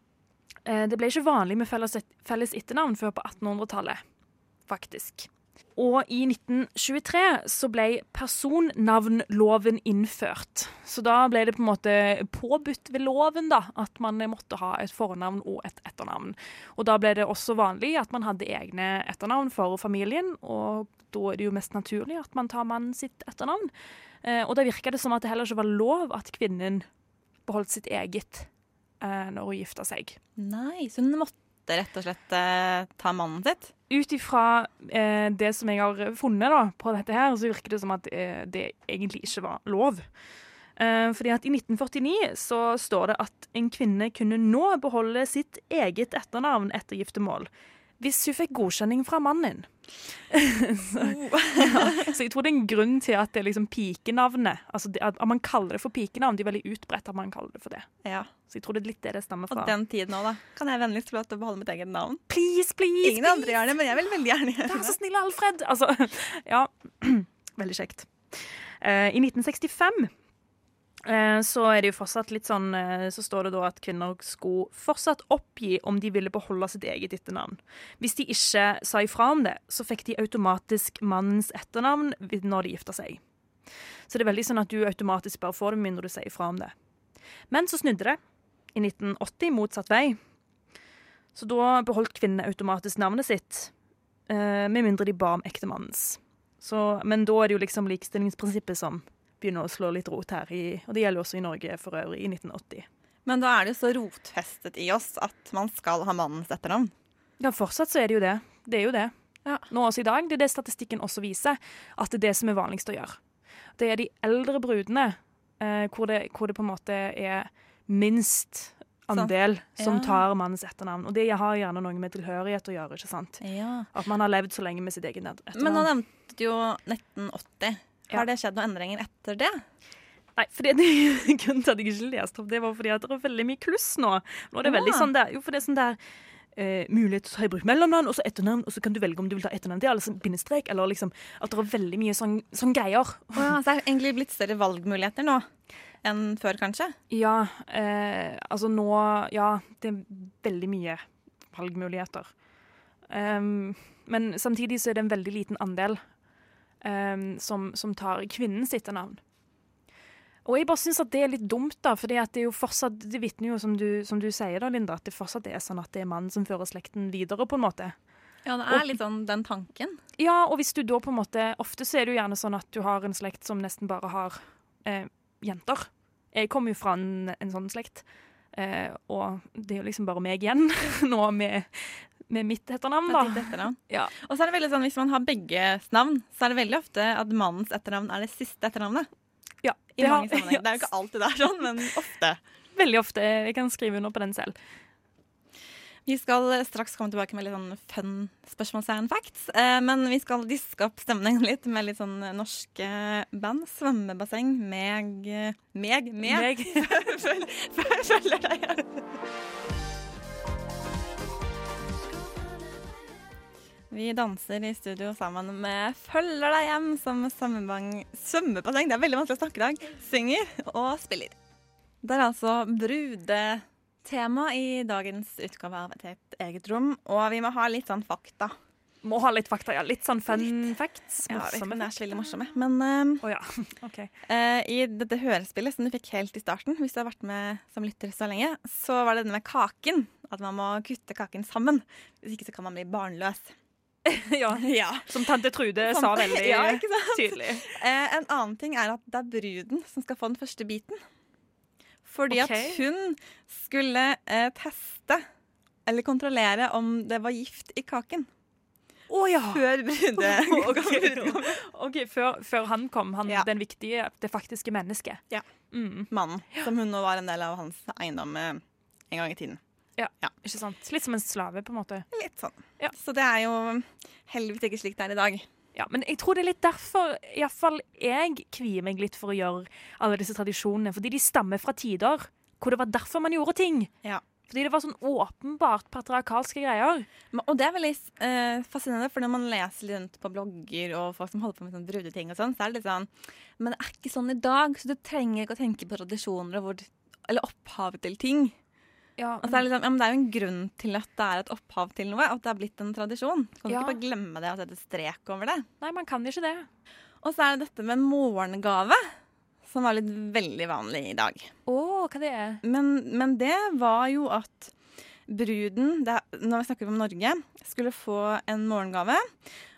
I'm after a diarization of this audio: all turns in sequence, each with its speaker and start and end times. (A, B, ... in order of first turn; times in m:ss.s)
0:00.7-0:04.0 A
0:04.7-0:23.7 A
0:24.2-0:26.9 A
0:27.5-0:28.5 A
0:29.0-0:30.2 A
0:30.4-0:33.7 B
0:33.9-0:40.0 A
0:40.8-0:49.7 A
0:50.3-0:57.9 A
0:51.0-0:52.1 B
0:58.0-0:58.3 B
0:58.5-0:59.7 A
0:59.5-1:02.2 B
1:02.3-1:03.8 A
1:03.0-1:05.0 B
1:04.6-1:10.1 A
1:11.0-1:23.2 A
1:24.1-1:26.7 A
1:27.5-1:28.2 A
1:28.8-1:30.2 A
1:31.4-1:33.7 A
1:34.3-1:42.9 A
1:43.3-1:46.9 B
1:47.4-1:49.1 A
1:49.7-1:53.2 A
1:53.8-2:03.4 A
1:59.1-2:00.2 B
2:03.4-2:03.9 B
2:03.9-2:05.9 A
2:05.6-2:09.6 B
2:10.4-2:16.0 A
2:14.6-2:15.1 B
2:16.6-2:23.5 A
2:23.4-2:25.5 B
2:26.0-2:27.0 B
2:27.1-2:32.3 A
2:33.1-2:36.0 A
2:36.8-2:39.2 A
2:40.4-2:48.0 A
2:48.4-2:50.0 B
2:48.7-2:49.0 A
2:50.2-3:04.1 A
3:03.1-3:09.1 B
3:09.6-3:10.9 A
3:10.0-3:12.4 B
3:12.8-3:14.6 A
3:16.1-3:29.0 B
3:26.2-3:27.0 A
3:33.9-3:41.4 B
3:42.0-3:48.6 B
3:49.0-3:52.0 A
3:50.3-3:50.6 B
3:51.3-3:53.2 B
3:53.2-3:54.1 A
3:54.3-4:03.5 B
4:04.1-4:07.7 A
4:04.6-4:05.1 B
4:05.8-4:11.0 B
4:12.0-4:15.2 B
4:12.3-4:12.8 A
4:15.9-4:18.3 B
4:19.1-4:26.7 A
4:19.4-4:21.6 B
4:26.1-4:29.6 B
4:30.0-4:32.1 A
4:32.1-4:35.5 B
4:35.8-4:43.9 A
4:44.5-4:47.1 A
4:47.3-4:58.6 B
4:59.2-4:59.6 A
4:59.4-5:05.7 B
5:03.7-5:04.0 A
5:05.8-5:06.7 A
5:07.2-5:09.0 B
5:09.7-5:11.5 B
5:11.7-5:12.6 A
5:12.6-5:14.7 B
5:15.3-5:19.3 B